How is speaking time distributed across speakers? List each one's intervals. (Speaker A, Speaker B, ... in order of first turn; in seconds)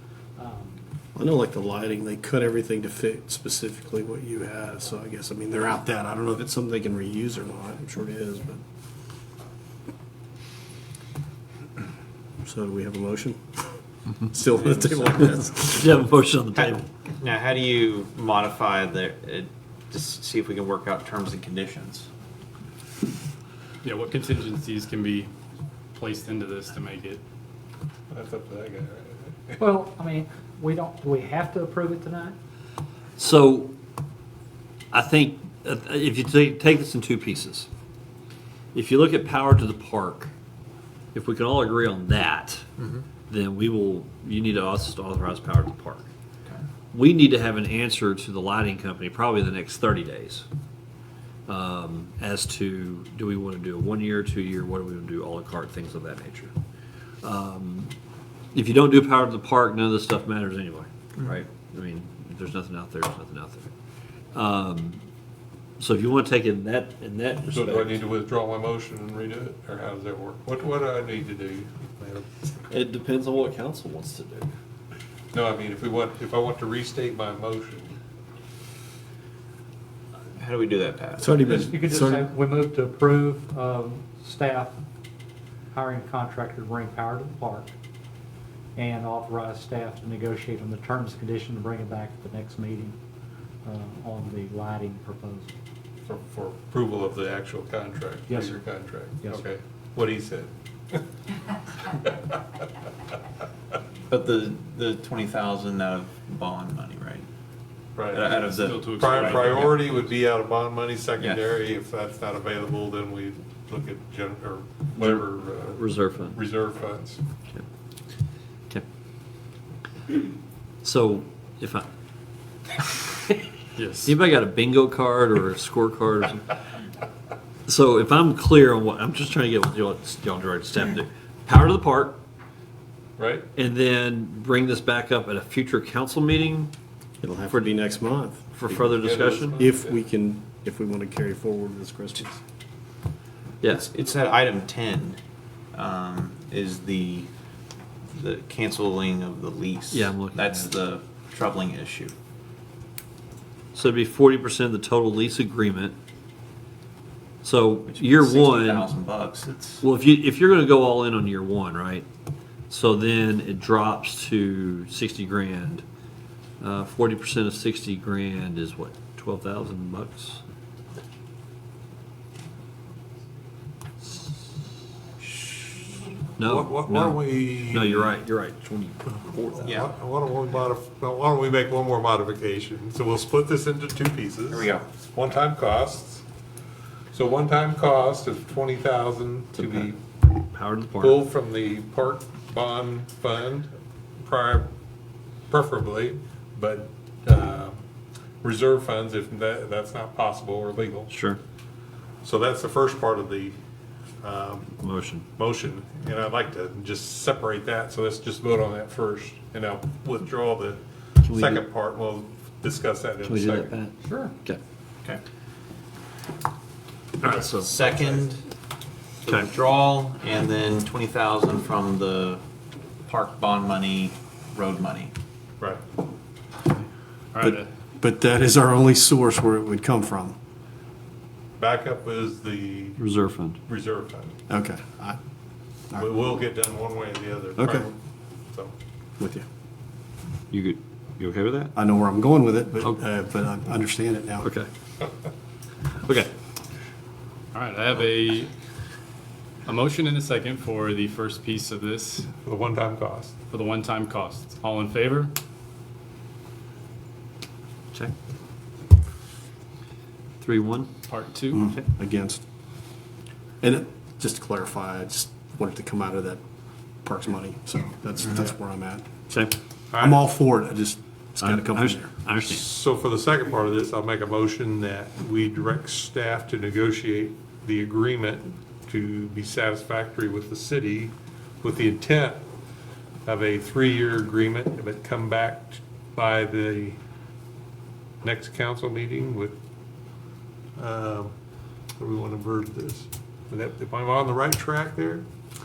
Speaker A: 0.4-0.8, 29.6-32.4, 81.4-84.8, 85.7-87.7, 88.8-93.0, 93.7-95.5, 98.3-98.6, 214.0-214.3
Speaker B: 1.1-8.6, 12.4-13.6, 14.3-15.9, 81.2-82.2, 137.2-138.7, 139.6-142.4, 227.4-230.4, 234.5-235.2, 237.6-237.9, 239.2-239.5, 241.8-244.5, 261.5-262.4, 263.6-266.4, 267.0-269.1, 270.0-272.1
Speaker C: 14.8-16.8, 33.2-33.7, 34.9-37.7, 38.7-40.3, 41.1-42.6, 43.3-46.1, 46.9-50.5, 51.5-56.5, 57.2-57.9, 58.5-63.7, 64.3-65.0, 65.8-68.1, 72.7-74.5, 115.0-116.4, 120.8-121.9, 124.0-126.5, 127.7-132.2, 133.6-136.7, 138.5-139.6, 143.6-143.9, 149.9-150.8, 153.7-155.9, 157.4-158.9, 159.8-162.1, 162.7-165.8, 166.6-170.4, 176.4-179.7, 189.6-191.2, 201.1-201.4, 204.8-205.3, 211.2-211.7, 213.2-214.6, 217.2-217.8, 233.0-233.6, 240.5-241.7, 244.4-244.7, 246.0-246.3, 260.4-260.9, 271.4-272.7
Speaker D: 16.5-22.1, 42.8-43.0, 80.4-81.4, 104.1-107.3, 108.1-109.8, 111.2-111.6, 143.7-145.2, 145.7-147.3, 148.1-152.1, 157.9-159.8, 179.6-179.9, 184.5-184.9, 217.4-218.4, 219.2-222.4, 223.1-225.1
Speaker E: 23.8-25.3, 25.9-27.2, 108.4-109.9, 123.8-124.2, 227.3-227.7, 247.5-248.5, 249.7-252.3, 253.5-255.3, 261.1-261.7
Speaker F: 28.1-29.6, 67.5-72.3, 75.3-78.0, 96.1-101.1, 108.0-108.4, 108.9-117.2, 133.2-133.5, 138.8-140.0, 176.4-178.2, 179.7-186.2, 187.1-190.0, 191.0-193.7, 194.2-194.7, 195.5-197.8, 198.4-201.2, 202.2-203.6, 204.2-204.7, 205.4-213.7, 231.6-233.0, 233.7-234.4, 236.0-238.0, 252.4-253.3, 269.9-270.2, 272.4-282.5, 283.3-287.0, 288.2-289.6, 290.8-291.3, 292.0-295.3